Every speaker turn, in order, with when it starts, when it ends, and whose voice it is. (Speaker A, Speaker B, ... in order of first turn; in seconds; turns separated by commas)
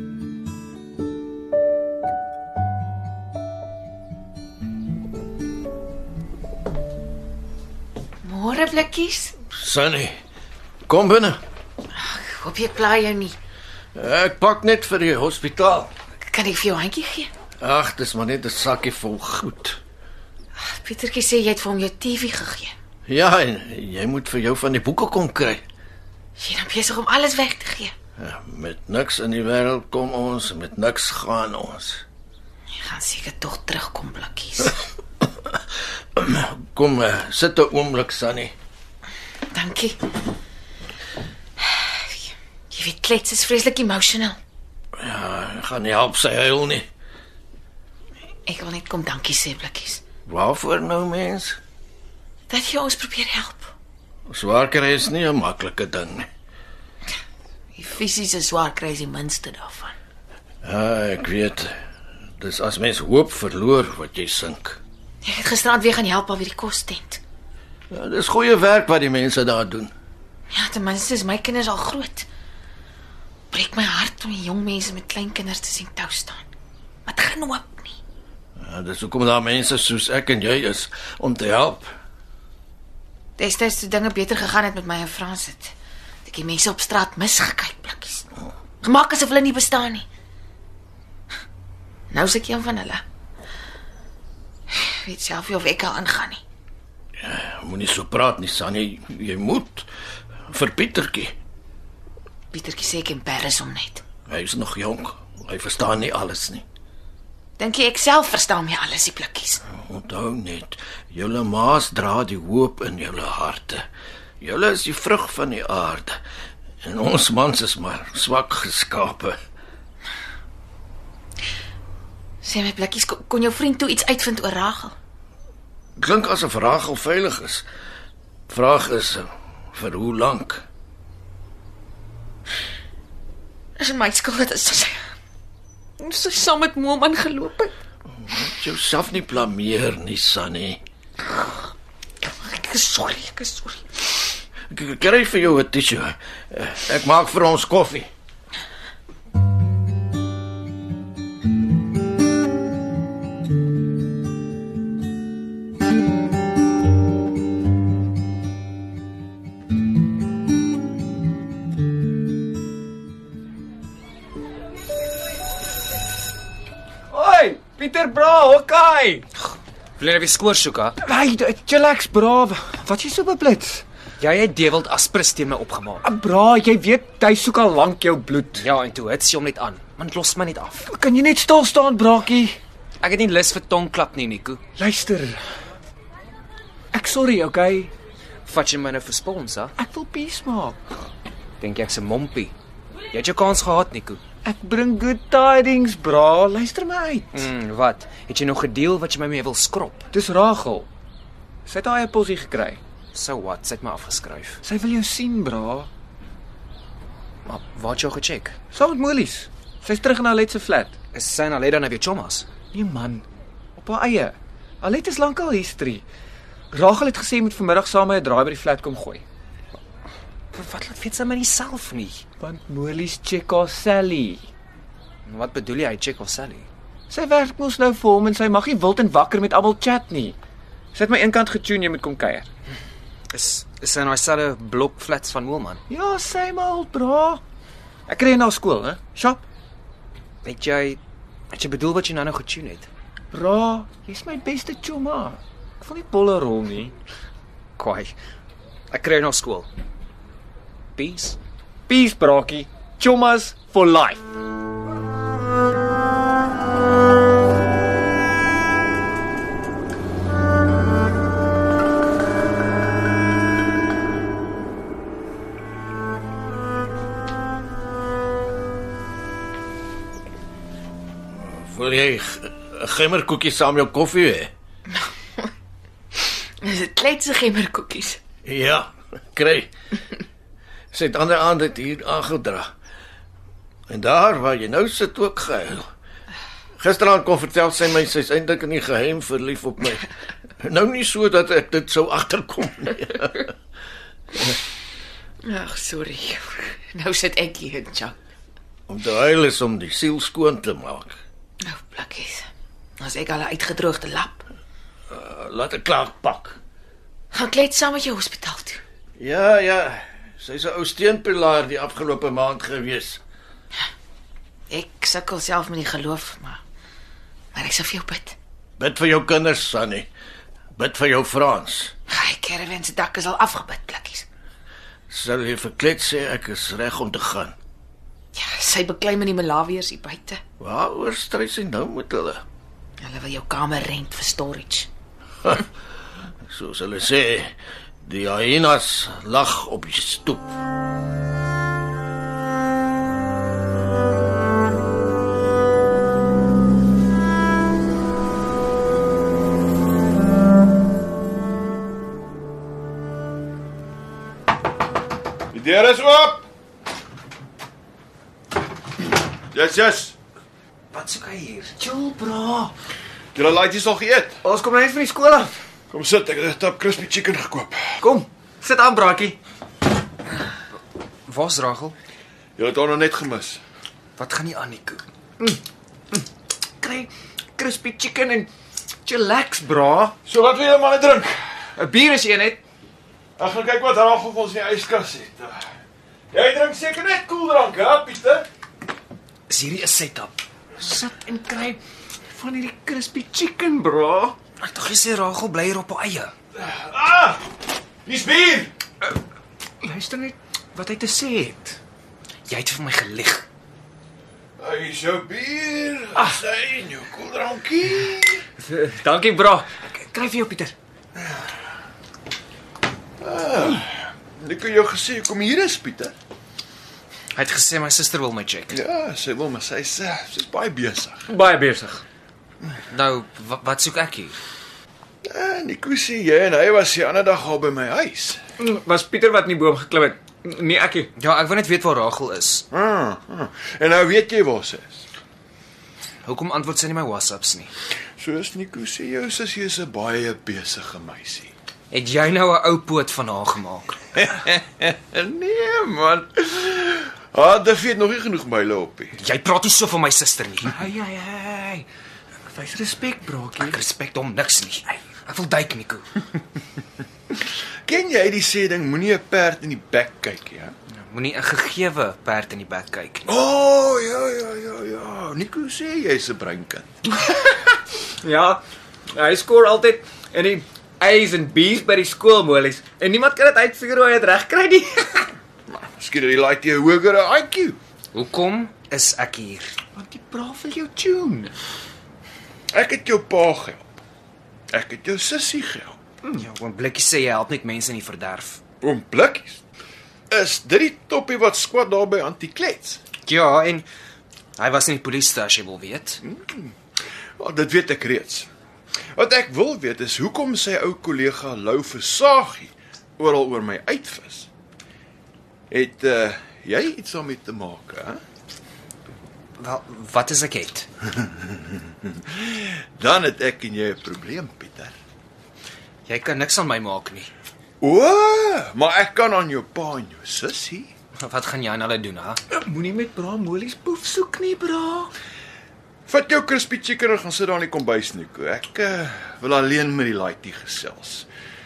Speaker A: 8.2-9.3, Speaker B: 9.5-10.2, Speaker B: 10.9-11.4, Speaker A: 11.9-13.4, Speaker B: 13.9-15.9, Speaker A: 16.3-17.3, Speaker B: 17.6-19.8, Speaker A: 20.6-22.7, Speaker B: 23.1-25.6, Speaker A: 26.4-27.9, Speaker B: 28.2-32.0, Speaker A: 32.8-34.8, Speaker B: 36.1-38.5, Speaker A: 39.5-40.0, Speaker A: 41.6-44.4, Speaker B: 45.0-46.9, Speaker A: 48.5-50.0, Speaker B: 50.3-51.6, Speaker A: 52.5-53.7, Speaker B: 54.3-56.3, Speaker A: 57.7-59.9, Speaker B: 60.6-61.7, Speaker B: 62.4-64.8, Speaker A: 65.2-67.2, Speaker B: 67.9-69.9, Speaker A: 70.5-72.3, Speaker A: 73.5-76.5, Speaker A: 77.1-78.0, Speaker B: 78.6-81.9, Speaker A: 83.4-85.7, Speaker A: 86.2-88.3, Speaker A: 88.8-90.1, Speaker A: 92.1-93.0, Speaker A: 94.7-96.4, Speaker B: 97.2-99.9, Speaker B: 100.5-101.3, Speaker A: 102.5-104.0, Speaker B: 104.3-106.7, Speaker A: 107.6-109.6, Speaker B: 109.7-113.8, Speaker B: 114.4-116.2, Speaker B: 116.8-119.3, Speaker A: 122.4-124.9, Speaker B: 126.0-127.7, Speaker B: 128.5-130.6, Speaker A: 133.8-135.0, Speaker A: 136.0-137.7, Speaker B: 138.2-140.8, Speaker A: 142.2-144.1, Speaker B: 144.7-148.1, Speaker C: 167.1-169.2, Speaker D: 170.0-171.0, Speaker C: 171.0-173.8, Speaker D: 174.2-176.0, Speaker C: 176.0-178.6, Speaker D: 178.5-180.9, Speaker C: 180.8-182.6, Speaker D: 183.0-184.6, Speaker C: 184.8-185.4, Speaker C: 186.9-187.9, Speaker D: 188.4-189.8, Speaker C: 189.8-190.8, Speaker D: 191.6-192.5, Speaker D: 193.1-194.2, Speaker C: 194.4-197.5, Speaker D: 197.3-200.1, Speaker C: 200.1-200.9, Speaker C: 201.7-202.8, Speaker D: 203.1-204.6, Speaker C: 204.6-205.9, Speaker D: 207.4-208.6, Speaker C: 208.7-210.9, Speaker D: 211.1-212.5, Speaker C: 212.7-213.2, Speaker C: 213.8-216.0, Speaker C: 216.7-219.2, Speaker D: 220.5-222.2, Speaker C: 222.4-224.5, Speaker D: 225.2-226.7, Speaker C: 227.1-230.3, Speaker C: 230.9-232.4, Speaker D: 233.3-235.8, Speaker C: 235.9-237.4, Speaker C: 238.1-239.4, Speaker D: 240.4-241.0, Speaker D: 241.5-242.9, Speaker C: 243.3-246.9, Speaker D: 247.8-248.1, Speaker D: 248.9-249.7, Speaker D: 250.9-251.4, Speaker C: 251.9-254.2, Speaker B: 271.4-274.5, Speaker A: 274.9-275.5, Speaker A: 276.1-278.2, Speaker B: 278.4-279.7, Speaker B: 280.9-282.7, Speaker B: 283.9-285.9, Speaker B: 286.8-290.1, Speaker B: 290.6-293.5, Speaker A: 295.4-298.2, Speaker B: 298.9-301.2, Speaker A: 301.6-302.5, Speaker A: 303.0-304.4, Speaker B: 305.1-306.6, Speaker A: 307.3-308.8, Speaker B: 309.2-313.2, Speaker A: 314.7-316.6, Speaker A: 317.5-318.4, Speaker B: 318.8-320.1, Speaker B: 320.8-321.9, Speaker A: 322.1-324.2, Speaker B: 325.1-327.6, Speaker A: 328.3-330.4, Speaker B: 330.6-332.4, Speaker A: 333.0-334.9, Speaker B: 336.4-340.6, Speaker E: 355.5-356.5, Speaker E: 359.5-360.1, Speaker D: 360.9-361.8, Speaker C: 361.8-362.7, Speaker E: 363.3-364.4, Speaker C: 364.4-365.6, Speaker E: 365.9-368.1, Speaker C: 368.0-369.4, Speaker D: 371.2-372.0, Speaker E: 372.6-373.6, Speaker D: 374.1-375.0, Speaker C: 376.8-378.5, Speaker C: 379.1-380.1, Speaker E: 380.2-381.6, Speaker C: 381.8-382.6, Speaker E: 383.4-385.7, Speaker E: 386.3-388.4, Speaker D: 389.5-390.4, Speaker C: 390.8-391.8, Speaker C: 392.3-394.4, Speaker D: 394.6-396.3, Speaker E: 396.6-397.5, Speaker E: 398.1-398.7, Speaker C: 399.8-401.8, Speaker D: 402.5-403.4, Speaker E: 404.6-408.5, Speaker C: 406.1-406.4, Speaker C: 408.6-410.7, Speaker E: 413.2-416.1, Speaker D: 417.3-418.8, Speaker E: 418.7-421.3, Speaker C: 421.3-422.0, Speaker D: 422.9-424.4, Speaker E: 425.2-428.4, Speaker C: 428.6-431.1, Speaker D: 431.1-432.6, Speaker E: 432.7-435.1, Speaker D: 436.2-437.7, Speaker E: 438.2-441.5, Speaker D: 441.9-444.0, Speaker E: 444.1-449.2, Speaker D: 449.2-450.8, Speaker C: 450.7-451.9, Speaker C: 452.5-453.8, Speaker D: 453.6-456.2, Speaker E: 457.8-460.8, Speaker D: 460.9-463.4, Speaker E: 463.3-466.9, Speaker C: 467.3-468.6, Speaker C: 469.1-475.3, Speaker E: 475.7-477.8, Speaker D: 478.1-479.8, Speaker C: 479.9-481.5, Speaker E: 482.7-484.0, Speaker E: 484.7-486.0, Speaker D: 486.4-488.6, Speaker E: 488.8-489.6, Speaker E: 490.3-493.0, Speaker D: 493.2-493.9, Speaker D: 494.6-496.2, Speaker E: 496.2-496.8, Speaker E: 497.4-498.5, Speaker E: 499.1-504.5, Speaker E: 505.7-508.2, Speaker D: 509.6-510.9, Speaker E: 511.4-515.0, Speaker D: 516.1-517.3, Speaker E: 517.8-520.9, Speaker D: 521.2-522.4, Speaker C: 522.5-525.1, Speaker E: 526.1-531.3